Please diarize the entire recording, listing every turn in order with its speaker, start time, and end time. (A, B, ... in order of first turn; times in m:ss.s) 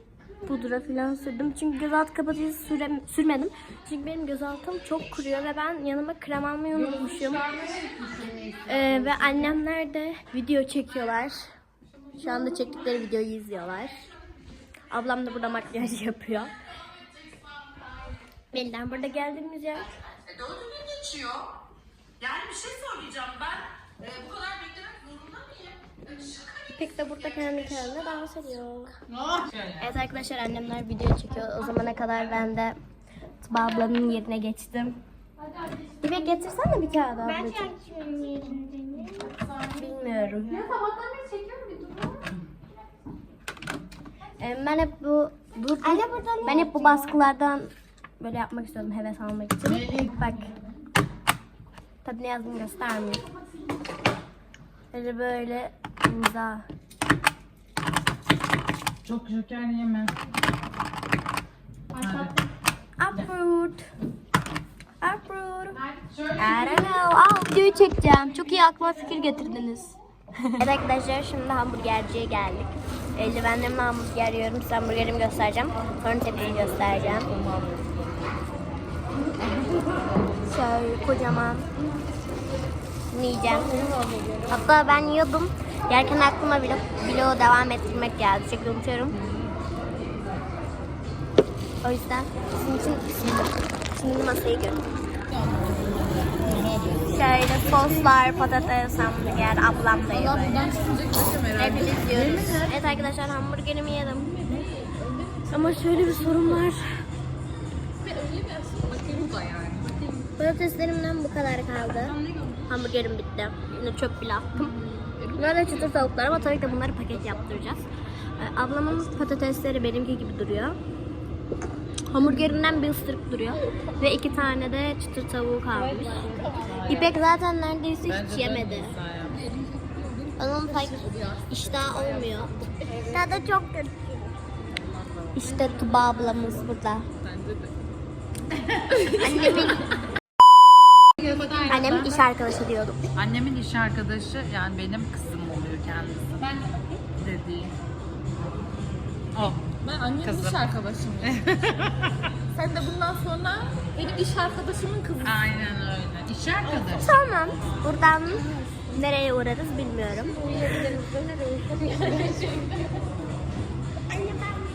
0:00.4-0:07.5 A
0:07.1-0:09.5 B
0:08.6-0:11.5 A
0:12.2-0:14.0 A
0:14.9-0:16.5 A
0:18.5-0:19.9 A
0:20.2-0:21.5 B
0:22.2-0:26.9 B
0:26.7-0:29.0 A
0:29.1-0:29.9 B
0:29.8-0:32.8 A
0:33.4-0:35.0 A
0:36.0-0:37.8 A
0:37.5-0:39.2 C
0:39.7-0:40.6 A
0:40.5-0:42.2 C
0:44.4-0:50.5 A
0:49.6-0:50.1 B
0:52.0-0:53.2 A
0:54.9-0:56.6 A
0:59.0-1:00.1 B
1:01.9-1:02.4 C
1:02.0-1:02.4 B
1:03.0-1:03.8 A
1:05.0-1:05.8 A
1:06.0-1:07.0 B
1:06.4-1:10.0 A
1:10.6-1:17.3 A
1:20.4-1:21.7 A
1:23.1-1:23.8 A
1:24.5-1:29.2 A
1:31.8-1:34.8 A
1:35.3-1:37.1 B
1:37.0-1:40.7 A
1:39.9-1:42.8 B
1:41.6-1:44.7 A
1:44.7-1:46.1 C
1:45.5-1:46.8 A
1:48.0-1:50.2 C
1:50.4-1:52.2 A
1:52.2-1:52.6 C
1:52.7-1:54.7 A
1:55.2-1:55.9 B
1:55.3-2:00.8 A
2:02.1-2:06.4 A
2:05.9-2:06.9 C
2:06.6-2:07.1 B
2:06.9-2:09.0 A
2:08.1-2:09.4 B
2:10.4-2:12.6 A
2:11.0-2:11.4 B
2:13.1-2:14.2 A
2:14.8-2:16.0 B
2:15.3-2:17.1 A
2:17.2-2:17.7 B
2:18.9-2:19.7 B
2:19.1-2:19.8 A
2:21.2-2:22.1 C
2:21.2-2:22.0 B
2:21.7-2:23.0 A
2:23.2-2:26.6 B
2:27.1-2:27.7 B
2:29.3-2:29.6 B
2:29.8-2:31.3 C
2:30.2-2:32.3 B
2:32.5-2:35.4 C
2:35.2-2:37.2 B
2:37.0-2:40.4 A
2:40.3-2:42.8 C
2:44.1-2:44.6 A